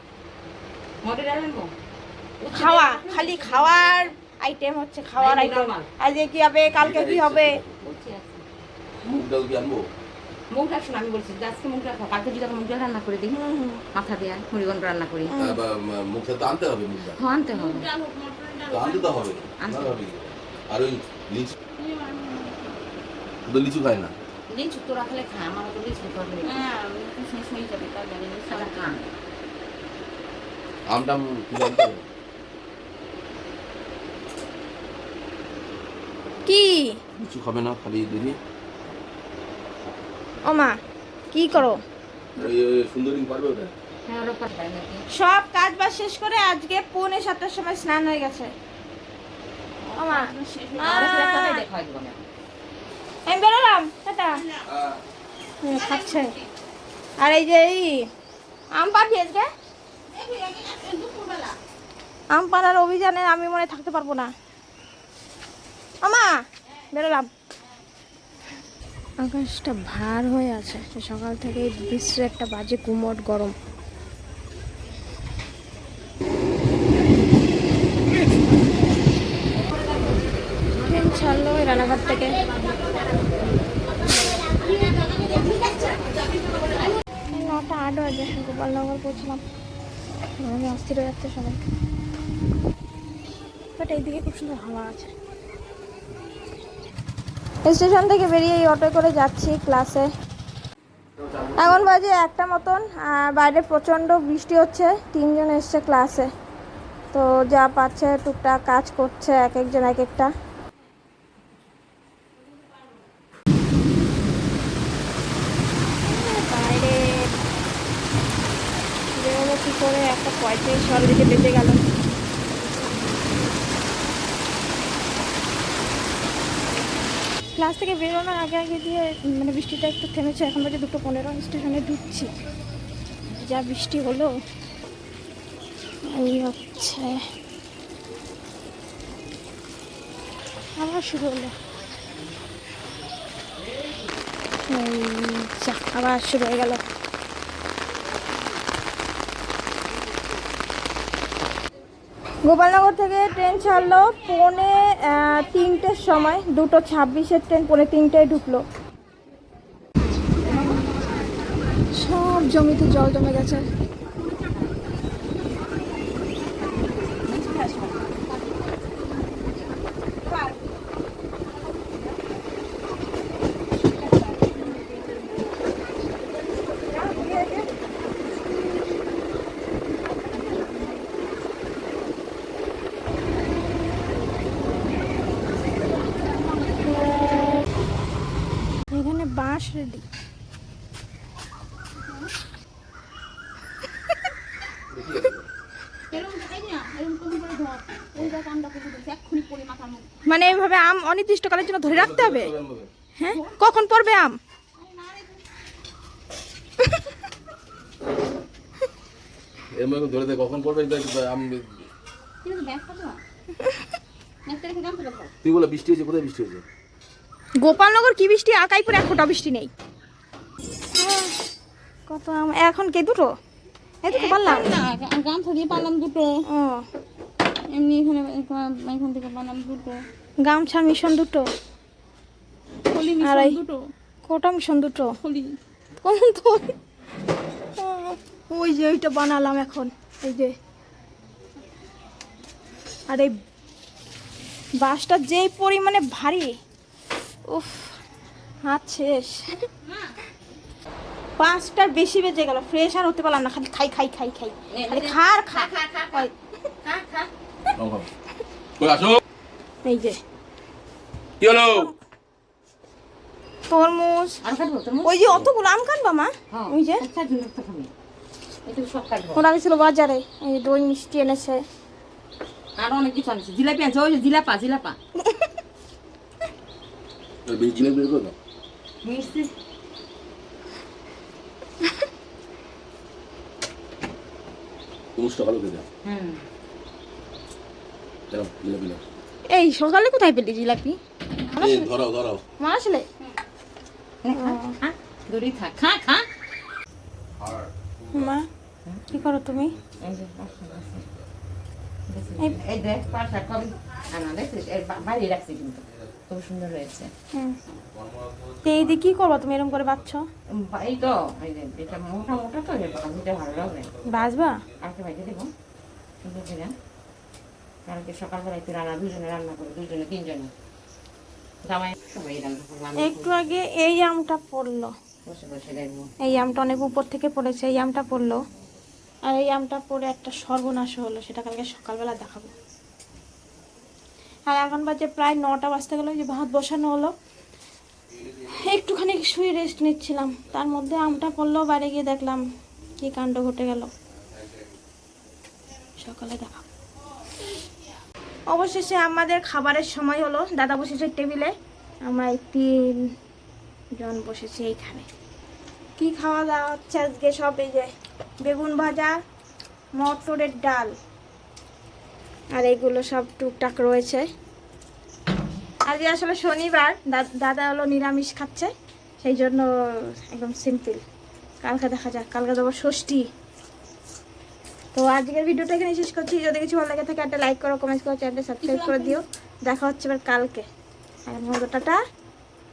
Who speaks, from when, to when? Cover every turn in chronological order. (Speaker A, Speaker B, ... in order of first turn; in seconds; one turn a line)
Speaker A: 1.0-1.7
Speaker A: 2.4-4.1
Speaker B: 2.5-7.6
Speaker A: 5.2-5.9
Speaker C: 6.7-7.8
Speaker A: 7.8-8.4
Speaker C: 9.1-9.8
Speaker A: 10.5-13.4
Speaker B: 13.3-13.8
Speaker A: 13.9-15.4
Speaker B: 15.3-15.6
Speaker C: 15.4-17.2
Speaker A: 17.1-17.9
Speaker D: 17.5-19.3
Speaker C: 18.7-21.6
Speaker A: 19.6-20.0
Speaker D: 21.8-22.8
Speaker C: 23.5-24.1
Speaker A: 24.5-26.6
Speaker D: 26.4-29.0
Speaker A: 28.5-29.1
Speaker C: 30.9-32.0
Speaker B: 36.5-37.0
Speaker C: 37.2-38.4
Speaker B: 40.5-40.8
Speaker B: 41.3-41.8
Speaker C: 42.4-43.7
Speaker A: 44.1-45.1
Speaker B: 45.1-48.5
Speaker D: 49.8-51.3
Speaker B: 50.0-51.6
Speaker A: 50.8-52.3
Speaker B: 53.3-54.4
Speaker C: 54.7-55.0
Speaker B: 55.6-56.4
Speaker D: 55.7-56.5
Speaker B: 57.2-58.0
Speaker B: 58.7-59.5
Speaker D: 60.1-61.6
Speaker B: 62.3-64.3
Speaker B: 66.0-66.3
Speaker B: 66.9-67.3
Speaker B: 69.2-73.5
Speaker B: 80.8-82.4
Speaker B: 87.3-89.4
Speaker B: 90.4-91.6
Speaker B: 93.8-95.1
Speaker B: 97.7-100.1
Speaker C: 101.2-101.9
Speaker B: 101.5-106.3
Speaker B: 107.1-110.3
Speaker B: 116.0-117.3
Speaker B: 119.1-121.8
Speaker B: 127.6-132.3
Speaker B: 133.3-134.3
Speaker B: 136.1-137.2
Speaker B: 140.8-141.5
Speaker B: 144.7-146.8
Speaker B: 152.4-158.6
Speaker B: 161.9-163.6
Speaker A: 167.3-167.9
Speaker B: 170.3-170.5
Speaker B: 176.9-177.7
Speaker B: 188.9-190.0
Speaker C: 194.9-195.5
Speaker D: 196.1-200.1
Speaker B: 200.3-202.5
Speaker C: 201.8-202.9
Speaker B: 203.2-204.4
Speaker D: 204.8-205.4
Speaker C: 209.8-211.9
Speaker D: 212.4-213.2
Speaker D: 214.5-215.3
Speaker C: 215.4-216.6
Speaker B: 217.6-219.7
Speaker B: 221.0-221.3
Speaker B: 222.1-223.3
Speaker B: 224.0-224.8
Speaker D: 224.1-226.3
Speaker B: 226.5-226.8
Speaker D: 227.7-230.1
Speaker B: 230.4-231.5
Speaker D: 232.9-233.8
Speaker B: 233.2-233.6
Speaker B: 234.3-235.1
Speaker D: 235.2-235.6
Speaker B: 236.0-236.7
Speaker B: 237.8-240.5
Speaker B: 244.8-246.5
Speaker B: 247.5-247.9
Speaker B: 248.7-249.6
Speaker D: 249.9-250.1
Speaker B: 251.4-256.3
Speaker A: 254.7-256.3
Speaker A: 256.8-257.3
Speaker C: 257.8-258.1
Speaker C: 258.8-259.2
Speaker B: 259.9-260.2
Speaker C: 261.4-261.9
Speaker B: 263.7-264.4
Speaker A: 264.4-265.5
Speaker B: 265.0-267.1
Speaker A: 266.5-267.9
Speaker A: 268.7-269.5
Speaker B: 269.4-271.6
Speaker A: 272.8-275.0
Speaker C: 277.5-278.3
Speaker A: 279.0-279.5
Speaker C: 285.2-285.9
Speaker A: 286.0-286.4
Speaker C: 288.3-289.0
Speaker B: 289.5-291.0
Speaker B: 291.5-291.9
Speaker C: 291.6-292.4
Speaker B: 292.6-293.1
Speaker A: 294.2-296.3
Speaker B: 294.4-294.8
Speaker C: 297.4-298.4
Speaker B: 298.1-298.5
Speaker C: 299.1-301.3
Speaker B: 299.1-299.7
Speaker A: 300.0-301.1
Speaker A: 302.1-307.1
Speaker C: 302.2-303.5
Speaker C: 305.9-306.2
Speaker C: 307.9-310.1
Speaker B: 308.6-310.3
Speaker A: 310.5-313.9
Speaker C: 311.9-314.7
Speaker B: 314.1-314.6
Speaker A: 314.8-315.5
Speaker A: 316.2-316.7
Speaker A: 317.9-320.5
Speaker A: 321.6-323.3
Speaker B: 323.0-324.9
Speaker A: 325.3-326.1
Speaker B: 326.2-328.4
Speaker B: 329.2-332.5
Speaker B: 334.5-337.1
Speaker B: 338.3-342.4
Speaker B: 343.0-343.9
Speaker B: 346.0-346.6
Speaker B: 348.5-353.1
Speaker B: 354.0-355.1
Speaker B: 356.0-359.2
Speaker B: 359.9-361.0
Speaker B: 362.5-364.3
Speaker B: 365.9-371.0
Speaker B: 371.6-373.3
Speaker B: 374.9-380.6
Speaker D: 378.6-379.2
Speaker B: 381.3-382.0